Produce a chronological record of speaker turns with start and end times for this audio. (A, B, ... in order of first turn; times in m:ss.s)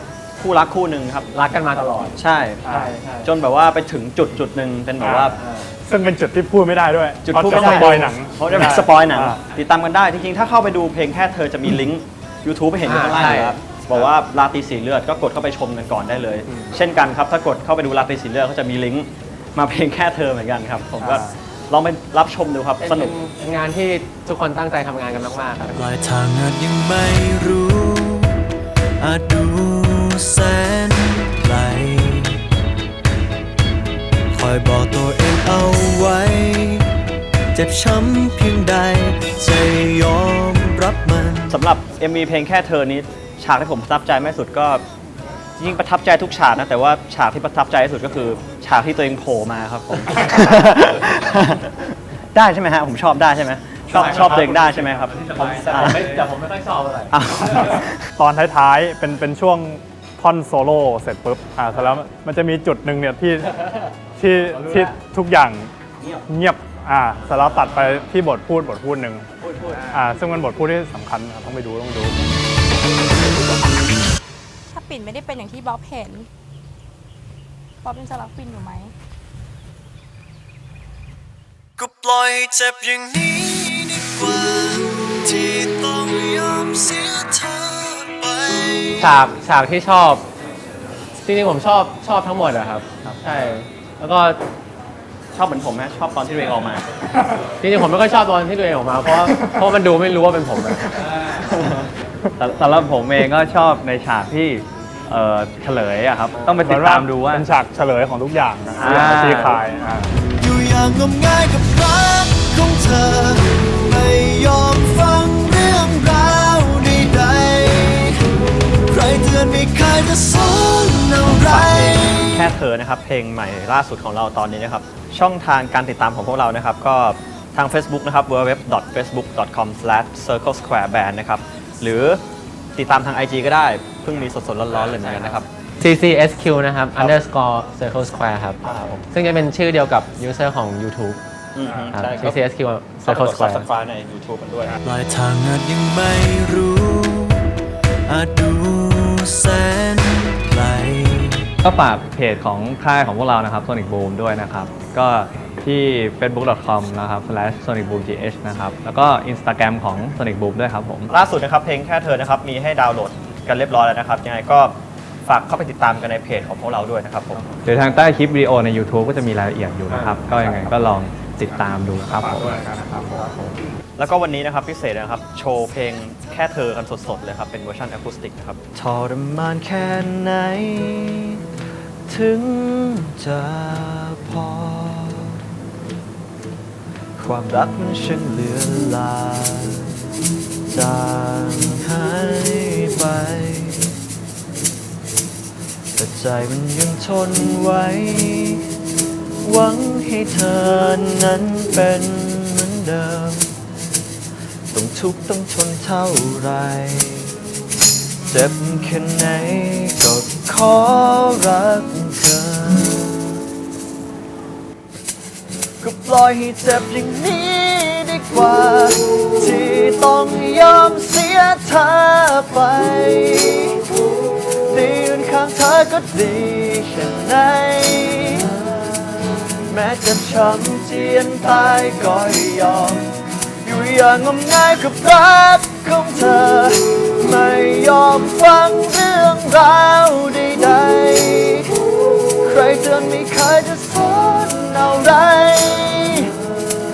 0:00.4-0:01.3 A
0:01.3-0:03.3 B
0:02.2-0:05.4 A
0:02.6-0:02.9 C
0:05.0-0:09.4 C
0:05.4-0:05.7 B
0:07.2-0:23.1 A
0:12.8-0:13.6 B
0:16.5-0:16.7 C
0:21.0-0:21.3 C
0:22.8-0:25.8 B
0:25.7-0:28.4 D
0:29.0-0:32.4 D
0:34.3-0:36.9 D
0:37.5-0:41.6 D
0:41.5-0:44.8 A
0:45.6-0:55.1 A
0:53.9-0:56.3 E
0:55.3-0:57.1 B
0:55.7-0:56.0 A
0:57.1-0:58.1 A
0:58.2-1:03.6 C
1:04.2-1:05.7 C
1:06.3-1:09.3 C
1:09.8-1:12.3 C
1:14.7-1:16.3 F
1:17.8-1:18.9 F
1:21.8-1:29.3 D
1:29.0-1:30.2 B
1:31.2-1:34.4 B
1:35.3-1:36.8 A
1:37.6-1:41.0 B
1:41.5-1:41.9 A
1:42.4-1:47.5 E
1:46.6-1:50.2 C
1:48.8-1:49.6 E
1:50.4-2:02.4 D
2:01.3-2:12.2 A
2:12.8-2:15.5 A
2:14.8-2:21.2 B
2:18.6-2:19.0 A
2:21.5-2:22.4 A
2:21.9-2:23.7 B
2:23.0-2:24.8 A
2:24.8-2:27.5 D
2:28.1-2:31.5 D
2:31.6-2:41.1 E
2:41.1-2:47.4 A
2:47.6-2:52.6 E
2:50.0-2:50.7 C
2:51.9-2:53.5 C
2:54.0-2:58.6 A
2:58.7-3:01.5 D
3:02.1-3:05.4 D
3:07.2-3:10.0 D
3:10.7-3:14.0 D
3:15.9-3:18.8 D
3:19.4-3:23.6 D
3:24.7-3:27.4 D
3:28.2-3:33.4 D
3:35.8-4:06.4 D